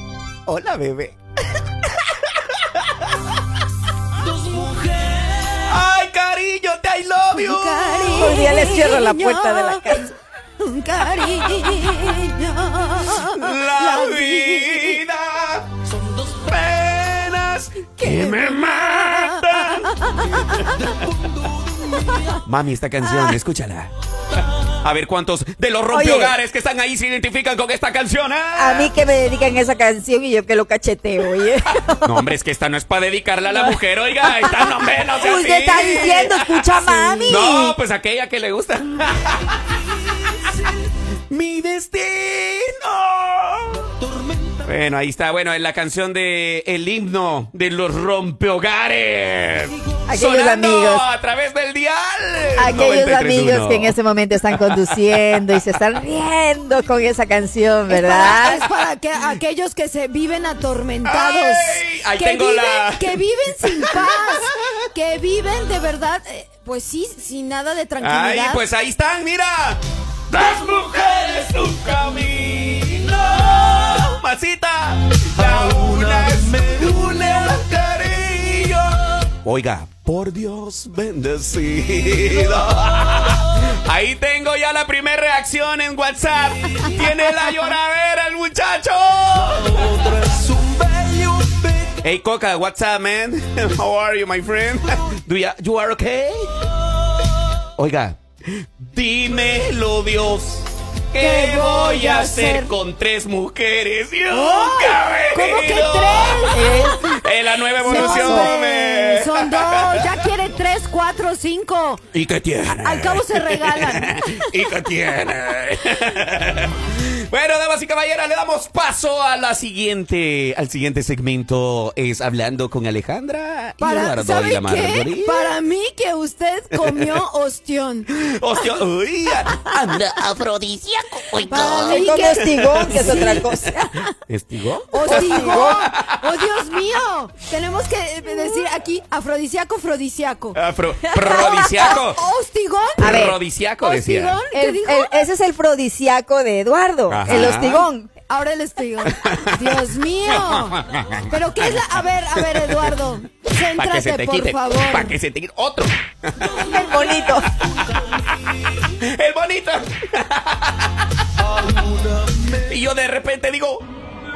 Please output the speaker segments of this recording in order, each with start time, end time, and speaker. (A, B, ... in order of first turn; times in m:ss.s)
0:00.5-0:01.2 A
0:01.9-0:03.1 A
0:05.6-0:08.4 A
0:07.3-0:15.0 B
0:08.2-0:10.1 C
0:13.2-0:20.9 A
0:18.0-0:20.8 B
0:22.0-0:23.9 A
0:24.5-0:28.9 A
0:25.9-0:26.4 C
0:28.6-0:32.2 C
0:32.0-0:40.7 A
0:33.5-0:37.8 C
0:41.3-0:44.0 A
0:44.6-0:54.0 A
0:50.1-0:51.0 C
0:52.6-0:58.6 C
0:54.5-0:55.7 A
0:57.9-1:08.6 B
0:58.5-0:58.8 A
1:01.0-1:04.8 A
1:08.0-1:30.8 A
1:32.0-1:36.9 A
1:37.8-1:50.3 A
1:41.2-1:42.7 B
1:44.3-1:47.0 B
1:46.6-1:46.9 C
1:47.8-1:52.0 B
1:47.8-1:48.5 C
1:52.1-2:05.6 A
1:52.7-1:54.7 B
2:03.8-2:08.1 B
2:06.7-2:07.2 A
2:08.2-2:13.6 A
2:11.5-2:14.1 B
2:11.8-2:13.8 C
2:14.3-2:16.2 A
2:14.9-2:20.6 B
2:15.0-2:15.9 C
2:20.6-2:22.2 A
2:21.1-2:23.2 B
2:21.2-2:21.9 C
2:23.0-2:24.4 A
2:23.0-2:23.4 C
2:23.8-2:25.3 B
2:24.5-2:28.1 C
2:27.1-2:27.9 A
2:28.3-2:35.2 B
2:29.1-2:29.8 A
2:30.3-2:31.7 A
2:32.4-2:33.0 A
2:33.8-2:41.8 A
2:36.5-2:37.5 C
2:42.4-2:43.9 A